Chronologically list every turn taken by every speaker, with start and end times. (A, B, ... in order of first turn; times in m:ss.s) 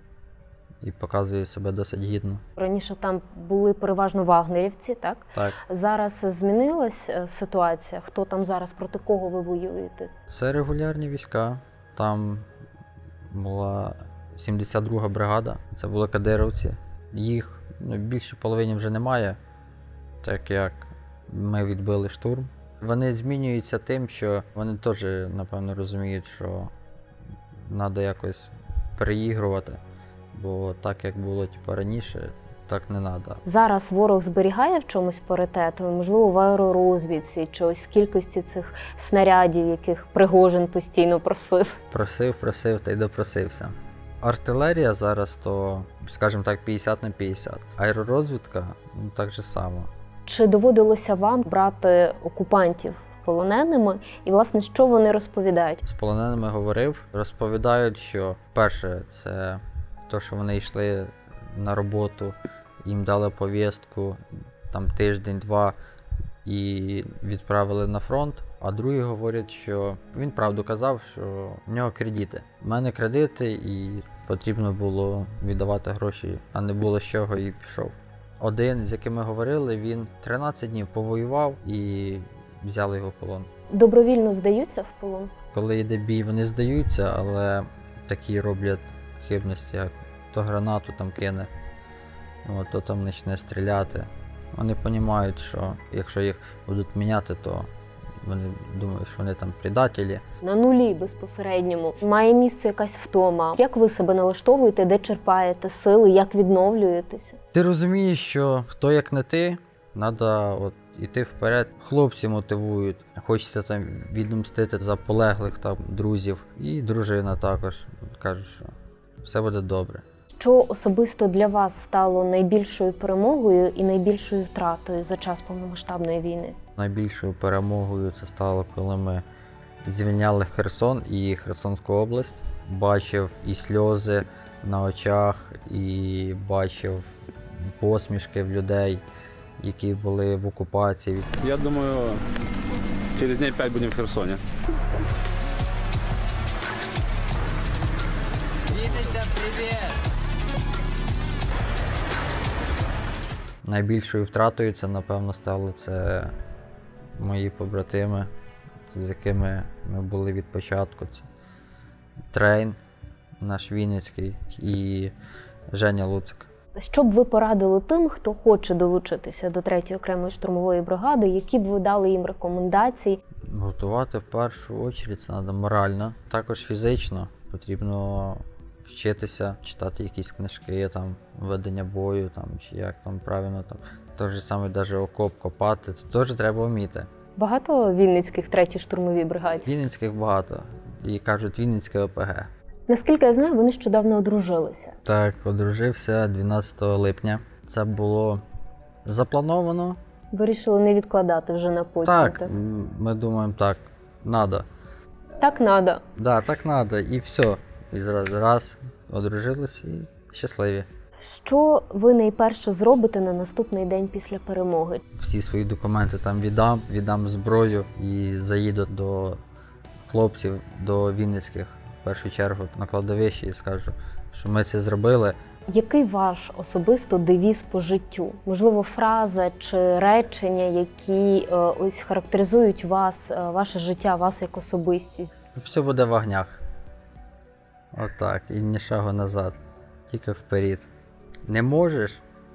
0:00.8-0:02.4 A
0:02.6-0:10.1 B
0:05.3-0:05.6 A
0:10.3-0:12.4 A
0:13.3-0:19.4 A
0:20.2-0:26.7 A
0:27.7-0:29.8 A
0:30.3-0:33.4 A
0:33.4-0:41.8 B
0:41.9-0:49.9 A
0:50.2-0:55.8 B
0:55.8-1:05.7 A
1:06.4-1:23.5 A
1:23.7-1:25.3 B
1:25.5-1:31.5 A
1:32.4-1:37.7 A
1:38.2-1:40.2 A
1:40.4-1:47.4 B
1:47.5-1:58.7 A
1:59.2-2:00.0 A
2:00.4-2:06.6 B
2:06.8-2:09.2 A
2:09.8-2:19.0 A
2:19.6-2:21.3 A
2:21.4-2:22.2 C
2:23.2-2:24.4 C
2:28.7-2:29.8 C
2:33.6-2:36.3 A
2:37.2-2:38.3 A
2:38.9-2:41.3 A
2:42.3-2:42.8 A
2:43.4-2:45.1 A
2:45.7-2:46.5 A
2:46.8-2:53.2 B
2:53.5-3:07.1 A
3:07.4-3:09.7 B
3:09.6-3:12.5 A
3:12.9-3:15.0 B
3:15.0-3:18.4 A
3:19.0-3:20.0 A
3:20.3-3:22.5 B
3:22.0-3:24.6 A
3:25.4-3:26.0 B
3:26.1-3:30.9 A
3:31.2-3:35.0 B
3:35.1-3:39.4 A
3:40.1-3:45.4 A
3:45.7-3:55.3 B
3:55.5-3:56.6 A
3:57.9-3:59.6 A
4:00.1-4:00.9 A
4:01.5-4:02.2 A